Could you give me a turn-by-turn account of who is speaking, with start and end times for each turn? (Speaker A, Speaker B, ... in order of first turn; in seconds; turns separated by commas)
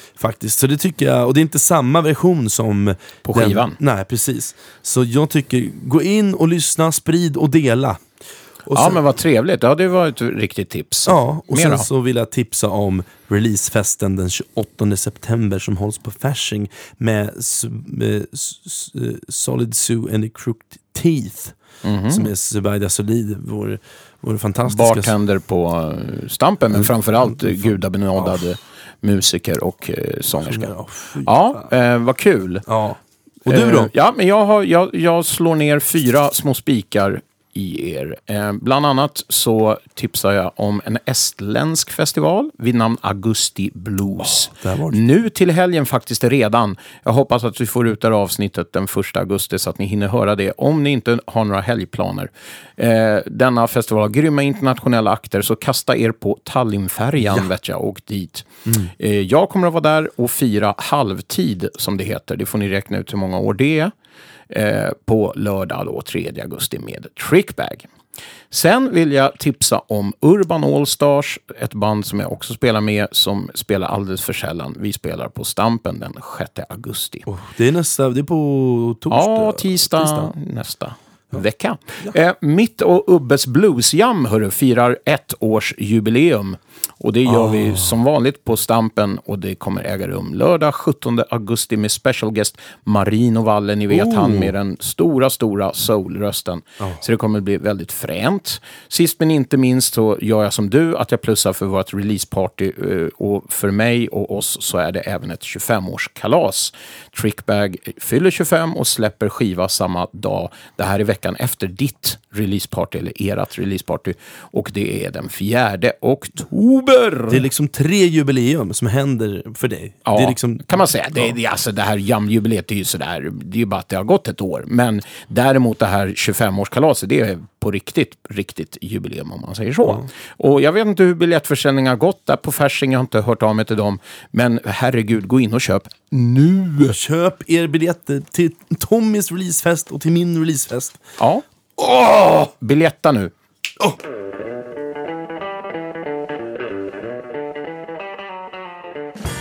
Speaker A: 0.2-8.1, Speaker B: 3.2-3.8, Speaker A: 8.6-9.0, Speaker B: 8.7-11.9, Speaker A: 11.1-21.6, Speaker B: 21.8-22.3, Speaker A: 22.1-25.1, Speaker B: 24.6-32.6, Speaker A: 26.7-28.4, Speaker A: 30.4-31.7, Speaker A: 32.7-33.9, Speaker B: 33.5-63.9, Speaker A: 44.2-45.0, Speaker A: 58.7-58.9, Speaker B: 64.5-67.9, Speaker B: 68.5-77.3, Speaker A: 77.3-80.3, Speaker B: 79.1-117.4, Speaker A: 87.2-88.0, Speaker A: 93.9-94.5, Speaker A: 117.3-121.3, Speaker B: 120.0-136.9, Speaker A: 136.9-141.0, Speaker B: 141.2-141.4, Speaker A: 141.8-142.5, Speaker B: 142.3-143.3